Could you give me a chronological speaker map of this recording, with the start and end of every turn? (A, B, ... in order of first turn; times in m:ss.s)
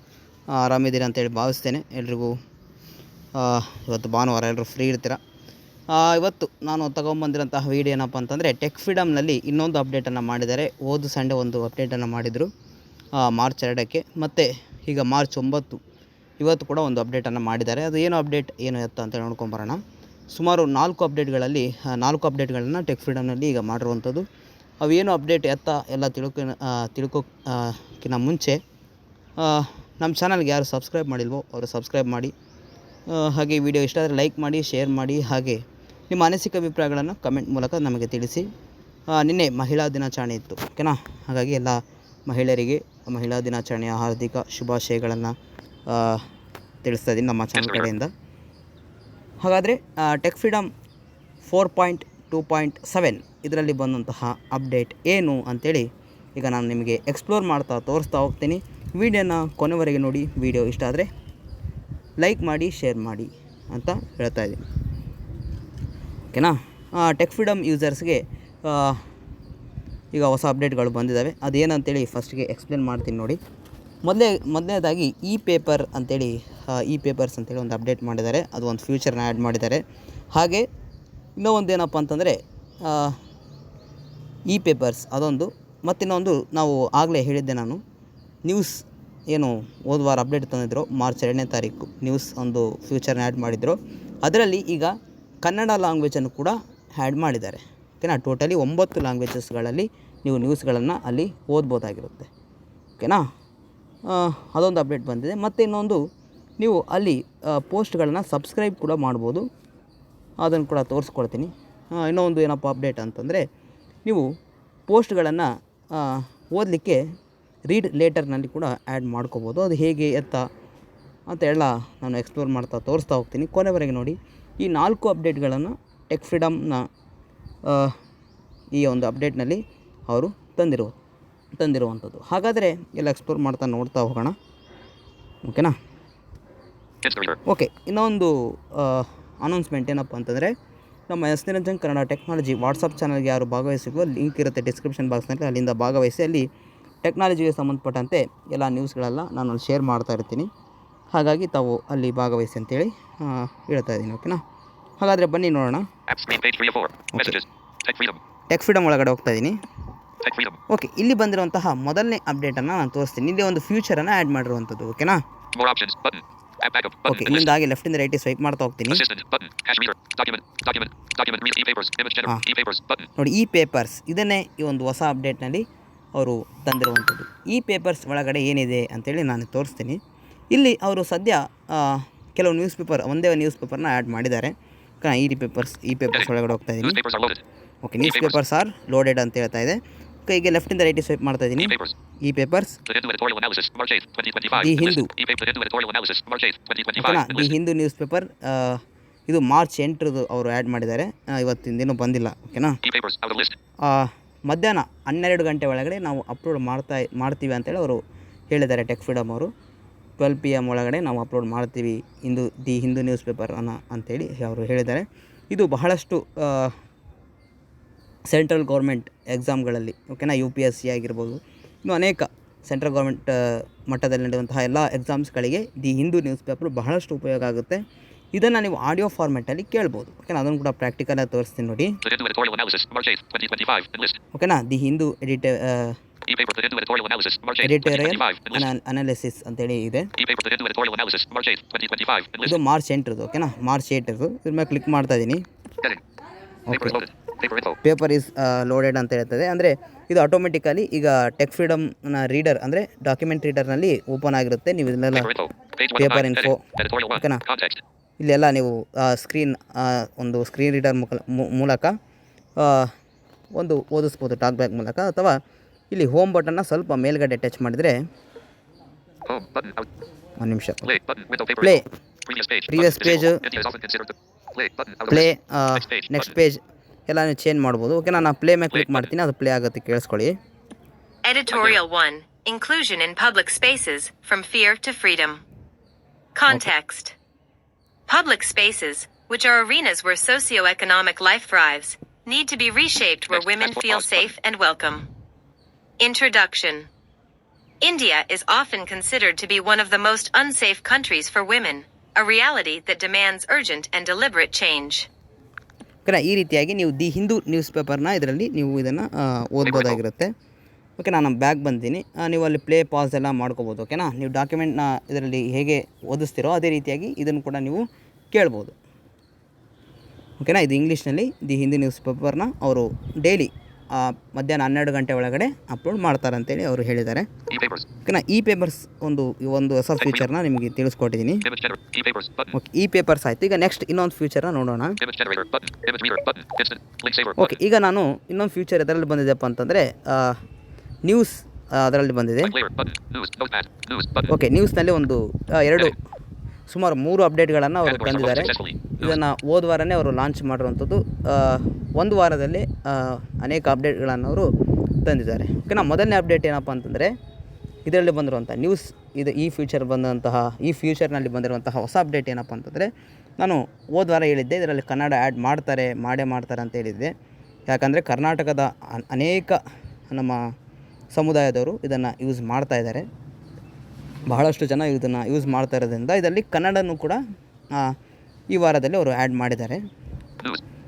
0:00.5-0:02.3 A
0:03.4-0:05.2 A
0:05.9-0:12.5 A
0:13.2-0:15.8 A
0:16.4-0:19.8 A
0:20.3-0:24.2 A
0:24.8-0:28.6 A
0:29.4-0:32.3 A
0:33.1-0:38.5 A
0:39.1-0:45.4 A
0:45.9-0:46.3 A
0:46.8-0:48.1 A
0:47.6-0:47.9 B
0:49.4-0:50.7 A
0:51.4-1:01.1 A
1:02.2-1:04.6 A
1:06.3-1:09.0 A
1:10.1-1:13.4 A
1:14.0-1:19.8 A
1:20.3-1:20.7 A
1:21.4-1:23.2 A
1:24.5-1:27.8 A
1:28.5-1:42.3 A
1:44.1-1:46.0 A
1:46.6-1:49.5 A
1:50.4-1:53.5 A
1:54.9-1:57.0 A
1:57.7-2:00.4 A
2:01.3-2:06.9 A
2:07.7-2:08.0 A
2:08.7-2:10.9 A
2:11.6-2:14.4 A
2:15.4-2:15.8 A
2:17.0-2:17.4 B
2:17.5-2:20.5 A
2:21.1-2:26.5 A
2:27.0-2:30.5 A
2:31.1-2:34.4 A
2:35.0-2:35.9 A
2:36.1-2:38.2 B
2:37.1-2:37.4 A
2:38.5-2:39.6 A
2:40.2-2:40.6 B
2:40.7-2:45.2 A
2:45.5-2:47.5 B
2:47.1-2:49.0 A
2:48.9-2:53.1 B
2:53.2-3:00.0 A
3:00.5-3:07.0 A
3:06.8-3:07.4 B
3:07.8-3:12.8 A
3:08.0-3:08.4 B
3:11.6-3:11.9 B
3:12.9-3:17.5 B
3:14.6-3:15.1 A
3:17.0-3:22.8 A
3:22.8-3:23.6 B
3:23.8-3:29.5 A
3:30.2-3:36.8 A
3:38.3-3:47.8 A
3:48.3-3:52.0 A
3:52.0-3:54.2 B
3:54.3-3:56.0 A
3:56.3-3:58.7 B
3:57.6-4:00.1 A
4:00.2-4:02.6 B
4:02.4-4:05.4 A
4:06.7-4:07.0 A
4:06.7-4:07.8 B
4:07.8-4:15.3 A
4:15.2-4:17.8 B
4:16.0-4:17.4 A
4:18.2-4:22.0 A
4:22.6-4:22.9 A
4:23.6-4:25.4 A
4:25.9-4:28.0 A
4:29.3-4:29.9 B
4:30.4-4:31.0 A
4:30.8-4:36.3 B
4:31.6-4:31.9 A
4:32.7-4:33.4 A
4:35.1-4:40.4 A
4:38.7-4:39.0 B
4:41.2-4:45.4 C
4:41.5-4:41.8 B
4:46.4-4:47.2 C
4:48.1-4:55.1 C
4:53.3-4:54.3 B
4:56.0-4:56.9 C
4:57.8-5:05.1 C
5:06.1-5:10.3 A
5:09.7-5:09.9 B
5:11.0-5:18.8 A
5:20.4-5:27.3 A
5:27.5-5:27.8 B
5:28.0-5:31.5 A
5:31.4-5:32.5 B
5:32.5-5:35.0 A
5:35.0-5:37.6 B
5:37.4-5:40.4 A
5:41.0-5:42.6 A
5:42.4-5:44.3 B
5:44.3-5:46.0 A
5:46.7-5:54.5 A
5:47.8-5:49.2 B
5:55.0-5:57.1 A
5:57.9-6:07.1 A
6:07.7-6:10.4 A
6:11.1-6:13.0 A
6:14.3-6:17.2 A
6:18.5-6:19.8 A